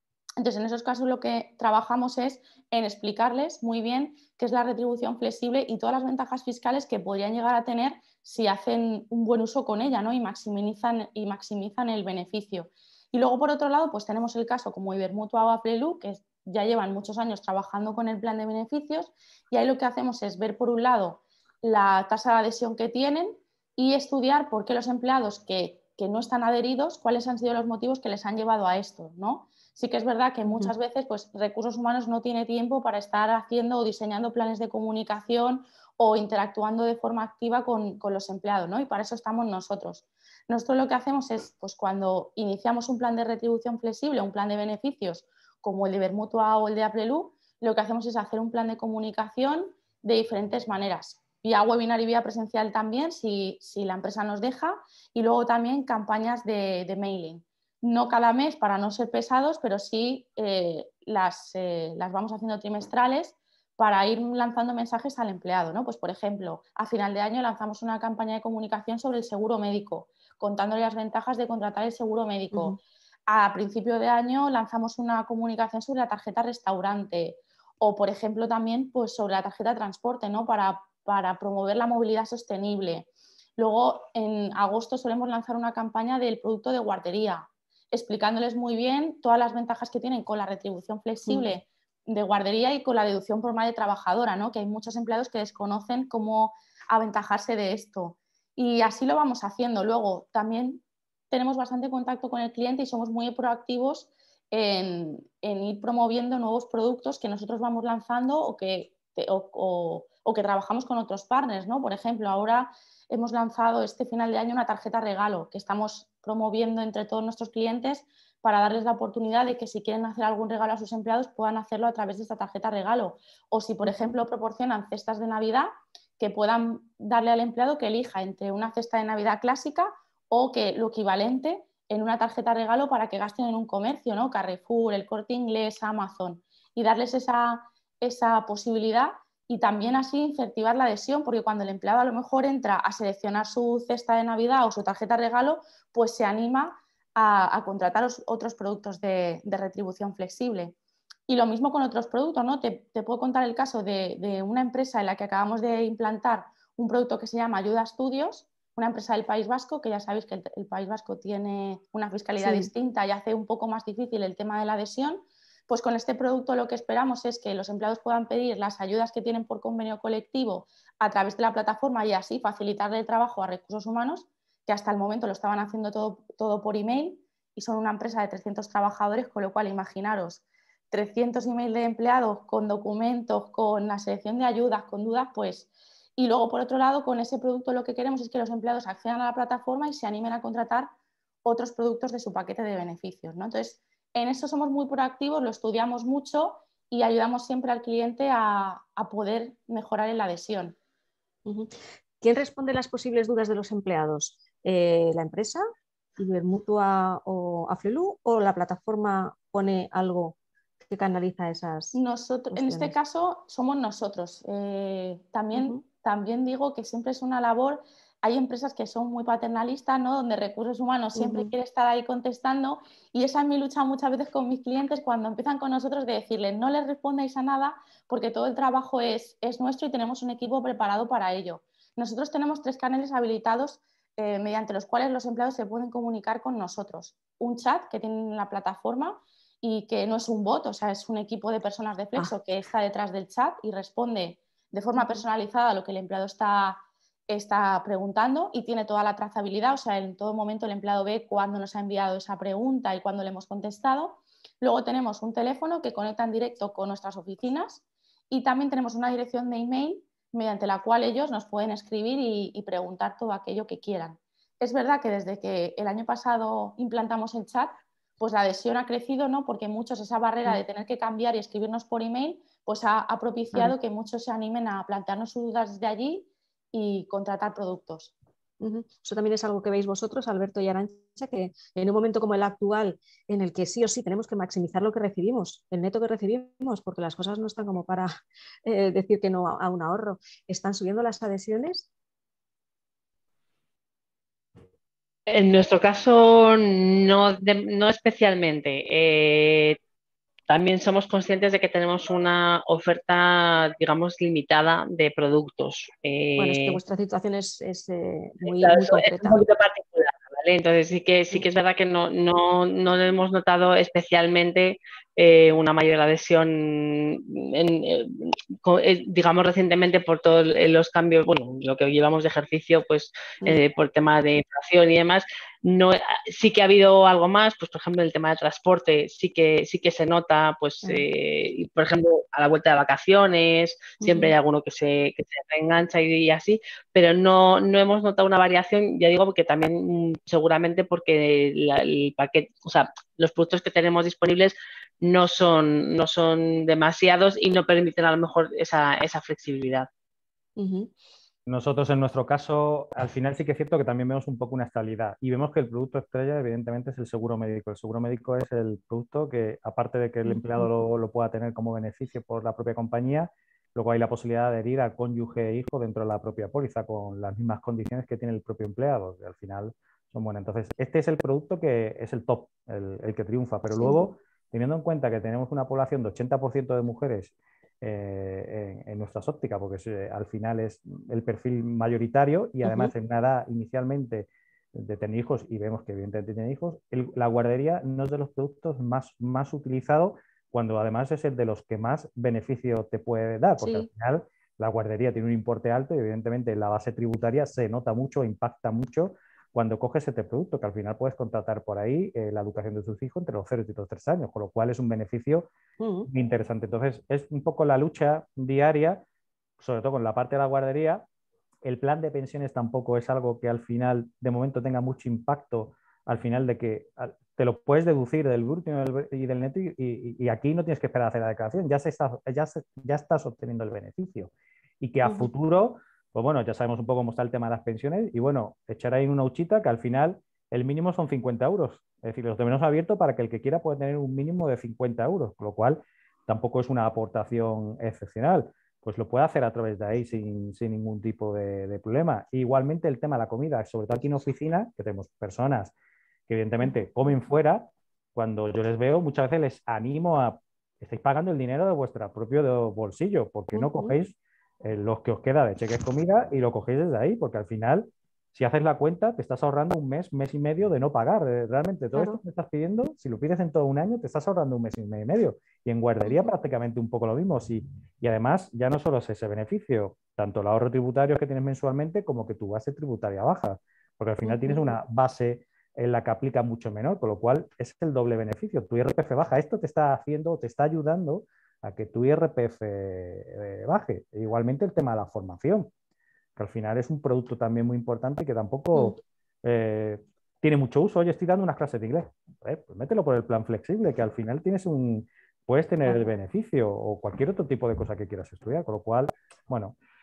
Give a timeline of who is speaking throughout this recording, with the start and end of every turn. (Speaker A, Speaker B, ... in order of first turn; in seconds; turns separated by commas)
Speaker A: 0.4-150.8, Speaker B: 30.4-30.7, Speaker B: 72.5-72.8, Speaker B: 91.2-91.5, Speaker B: 123.8-124.1, Speaker A: 151.3-190.9, Speaker B: 162.4-162.7, Speaker A: 191.4-200.8, Speaker B: 201.5-205.6, Speaker B: 206.2-212.0, Speaker A: 211.9-278.1, Speaker B: 212.5-212.9, Speaker B: 215.6-215.8, Speaker B: 221.2-221.5, Speaker B: 278.6-291.9, Speaker C: 295.3-299.8, Speaker C: 300.5-306.8, Speaker B: 306.4-309.4, Speaker C: 308.4-349.9, Speaker B: 334.0-334.3, Speaker B: 350.6-350.9, Speaker D: 351.5-405.5, Speaker B: 360.3-360.7, Speaker B: 373.8-374.1, Speaker B: 382.6-382.9, Speaker B: 393.6-393.9, Speaker B: 405.8-406.1, Speaker D: 406.1-409.0, Speaker D: 409.6-411.1, Speaker D: 411.6-445.7, Speaker B: 425.0-425.3, Speaker D: 446.3-485.7, Speaker B: 453.5-454.0, Speaker B: 461.9-462.2, Speaker B: 474.2-474.7, Speaker D: 486.4-499.8